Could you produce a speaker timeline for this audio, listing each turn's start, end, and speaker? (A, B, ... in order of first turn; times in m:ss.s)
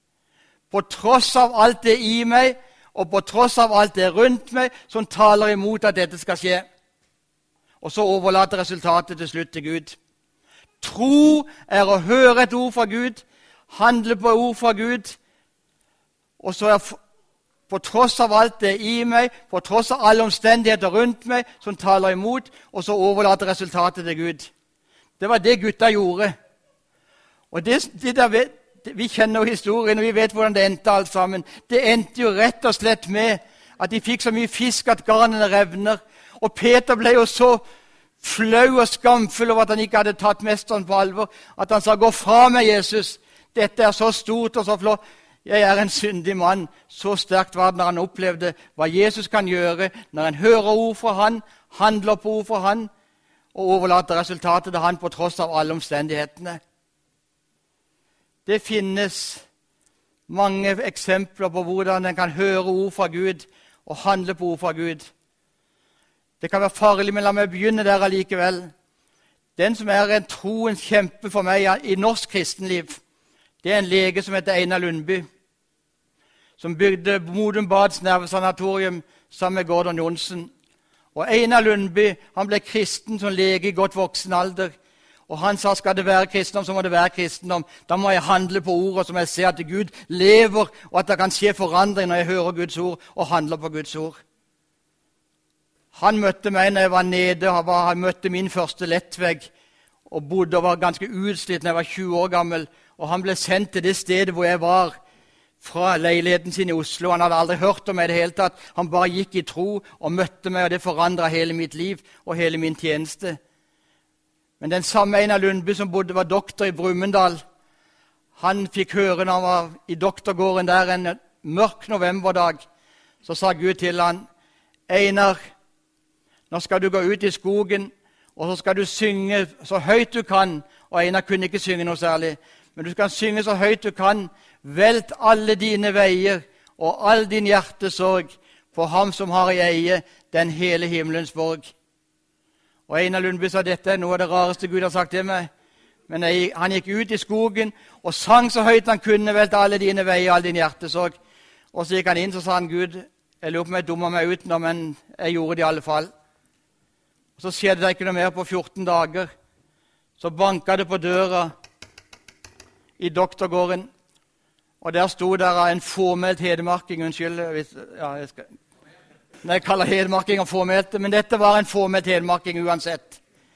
0:00.7-0:06.6 A
0:07.8-0:10.0 A
0:10.8-0:15.2 A
0:16.4-0:17.0 A
0:17.7-0:24.5 A
0:25.2-0:26.3 A
0:27.5-0:37.6 A
0:38.2-0:52.9 A
0:53.5-0:56.6 A
0:58.5-0:59.4 A
1:00.3-1:05.1 A
1:06.4-1:08.7 A
1:09.6-1:13.0 A
1:13.6-1:15.2 A
1:16.6-1:20.5 A
1:21.2-1:24.8 A
1:25.3-1:34.2 A
1:35.9-1:39.5 A
1:40.1-1:45.0 A
1:45.6-1:53.4 A
1:54.6-1:57.4 A
1:58.4-2:02.6 A
2:03.2-2:04.2 A
2:04.9-2:05.4 A
2:06.5-2:21.7 A
2:22.9-2:25.5 A
2:26.1-2:31.2 A
2:31.7-2:36.1 A
2:37.4-2:39.3 A
2:40.2-2:41.5 A
2:43.0-2:43.9 A
2:44.8-2:48.5 A
2:49.4-2:53.2 A